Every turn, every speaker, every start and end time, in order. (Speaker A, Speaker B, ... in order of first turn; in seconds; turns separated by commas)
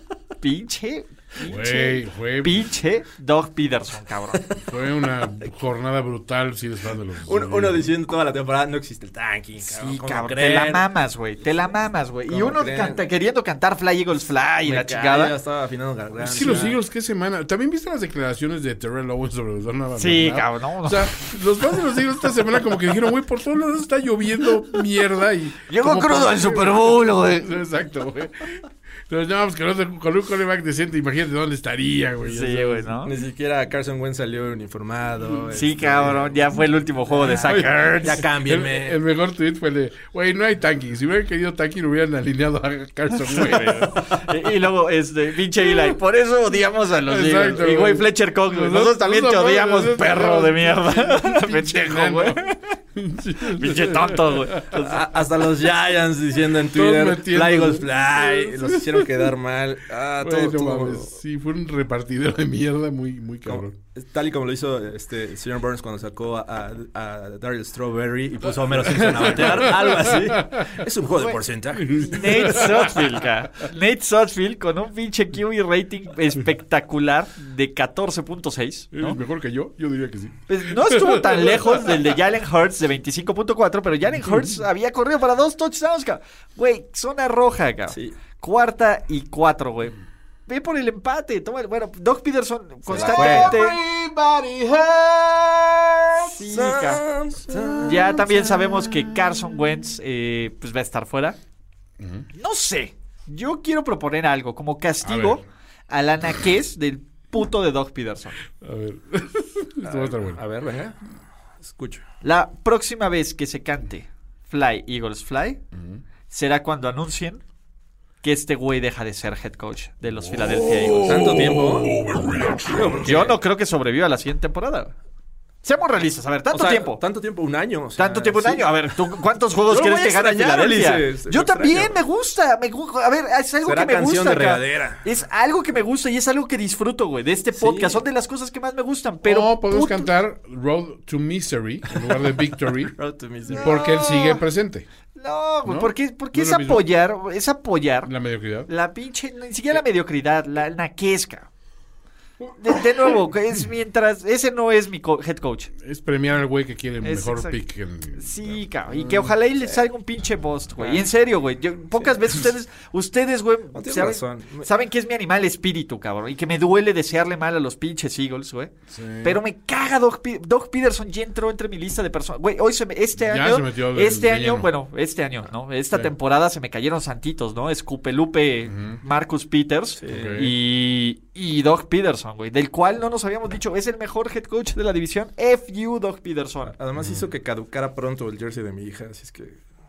Speaker A: 0.4-4.4, Speaker B: 1.4-2.7, Speaker B: 4.6-7.9, Speaker C: 7.2-10.9, Speaker A: 9.6-15.3, Speaker C: 12.3-13.0, Speaker C: 14.7-16.8, Speaker B: 16.2-32.9, Speaker A: 20.0-21.2, Speaker A: 25.7-27.5, Speaker A: 32.2-33.1, Speaker C: 33.0-36.4, Speaker A: 35.5-38.2, Speaker C: 37.1-39.0, Speaker B: 37.4-44.2, Speaker A: 43.3-52.6, Speaker B: 47.0-54.8, Speaker A: 53.5-55.0, Speaker C: 54.8-61.2, Speaker B: 56.7-59.3, Speaker B: 60.2-63.7, Speaker C: 63.5-72.2, Speaker B: 68.6-70.8, Speaker B: 71.8-73.2, Speaker A: 72.0-79.2, Speaker B: 78.9-82.1, Speaker A: 80.5-90.0, Speaker C: 87.9-88.2, Speaker A: 90.5-93.8, Speaker C: 92.9-93.7, Speaker B: 93.0-96.3, Speaker A: 96.2-97.0, Speaker C: 96.4-98.2, Speaker B: 97.5-99.7, Speaker A: 97.8-101.4, Speaker B: 102.0-102.3, Speaker A: 102.3-108.4, Speaker B: 105.0-105.4, Speaker B: 108.6-110.4, Speaker C: 109.8-111.0, Speaker C: 111.6-112.0, Speaker A: 112.2-115.6, Speaker B: 115.7-116.0, Speaker A: 116.3-117.4, Speaker A: 118.2-121.5, Speaker B: 120.2-122.8, Speaker C: 120.9-122.0, Speaker C: 122.7-123.4, Speaker A: 123.0-125.0, Speaker A: 125.6-127.0, Speaker C: 126.5-128.7, Speaker A: 128.0-140.1, Speaker C: 129.7-132.0, Speaker C: 133.7-135.0, Speaker C: 137.5-138.0, Speaker B: 139.2-142.9, Speaker C: 142.9-143.8, Speaker B: 143.5-144.9, Speaker A: 143.5-144.4, Speaker A: 145.2-148.1, Speaker B: 145.7-146.9, Speaker B: 148.1-148.7, Speaker A: 148.7-151.5, Speaker A: 152.6-155.7, Speaker B: 155.8-159.3, Speaker A: 157.0-157.6, Speaker A: 158.2-186.7, Speaker C: 160.8-161.1, Speaker C: 161.9-162.4, Speaker C: 163.7-164.7, Speaker B: 168.9-169.4, Speaker B: 173.2-174.7, Speaker B: 178.7-179.0, Speaker C: 180.0-180.5, Speaker B: 180.1-180.5, Speaker C: 186.7-189.6, Speaker B: 187.0-187.2